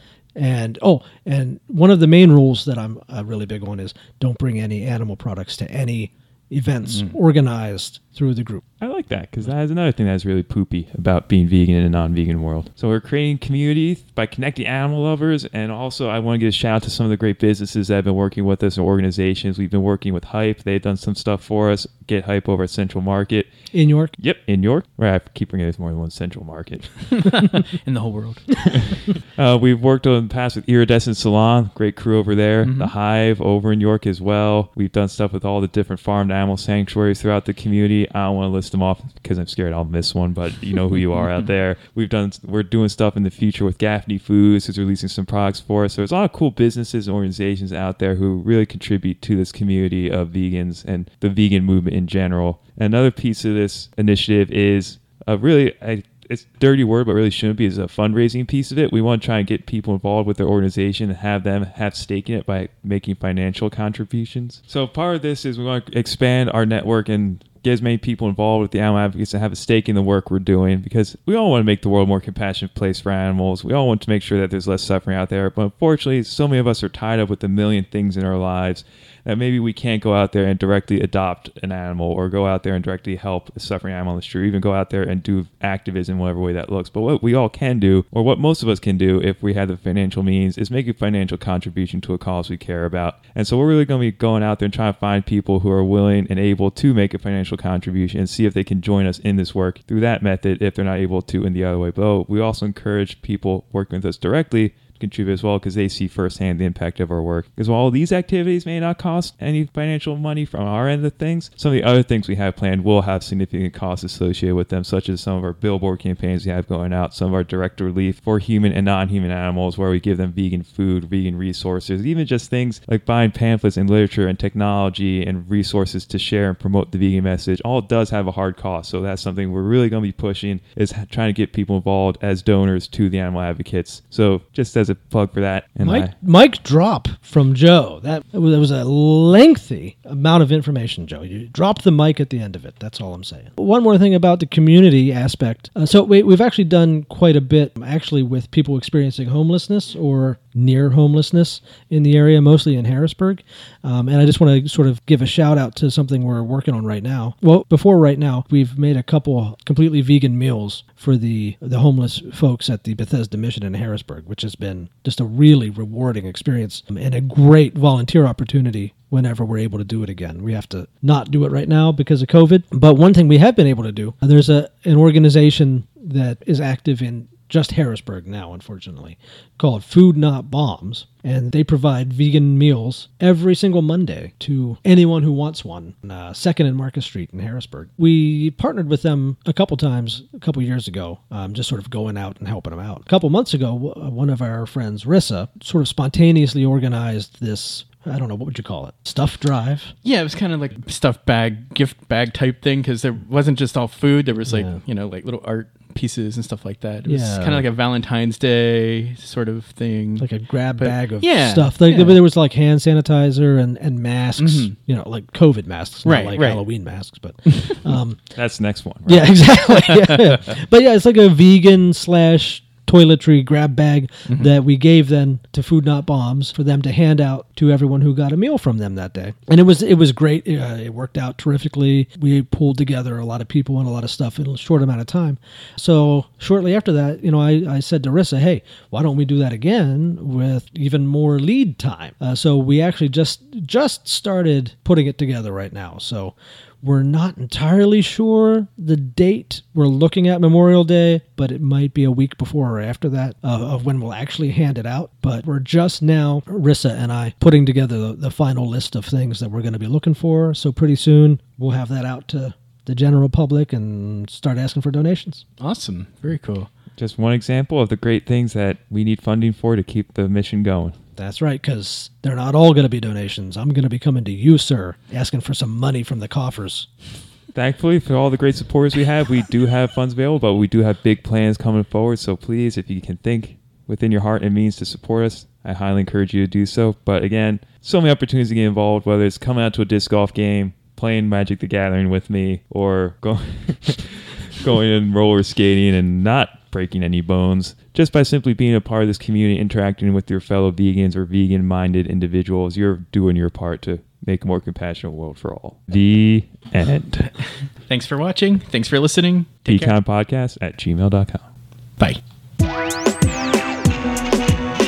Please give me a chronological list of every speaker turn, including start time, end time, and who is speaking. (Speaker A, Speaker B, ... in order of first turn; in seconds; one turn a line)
Speaker A: 0.3-8.6
Speaker B: 6.9-7.1
Speaker C: 8.8-23.5
Speaker A: 23.7-24.1
Speaker C: 24.2-27.1
Speaker B: 27.1-29.0
Speaker C: 29.3-136.1
Speaker B: 32.6-32.9
Speaker B: 41.1-41.5
Speaker A: 135.8-199.9
Speaker B: 200.0-212.2
Speaker A: 204.5-204.8
Speaker A: 207.1-207.7
Speaker A: 210.2-218.2
Speaker B: 214.4-214.7
Speaker B: 216.0-216.6
Speaker C: 218.3-219.6
Speaker A: 219.0-265.4
Speaker B: 265.6-266.7
Speaker C: 266.9-270.9
Speaker A: 271.1-276.9
Speaker C: 277.5-307.3
Speaker B: 307.4-309.9
Speaker C: 309.7-311.4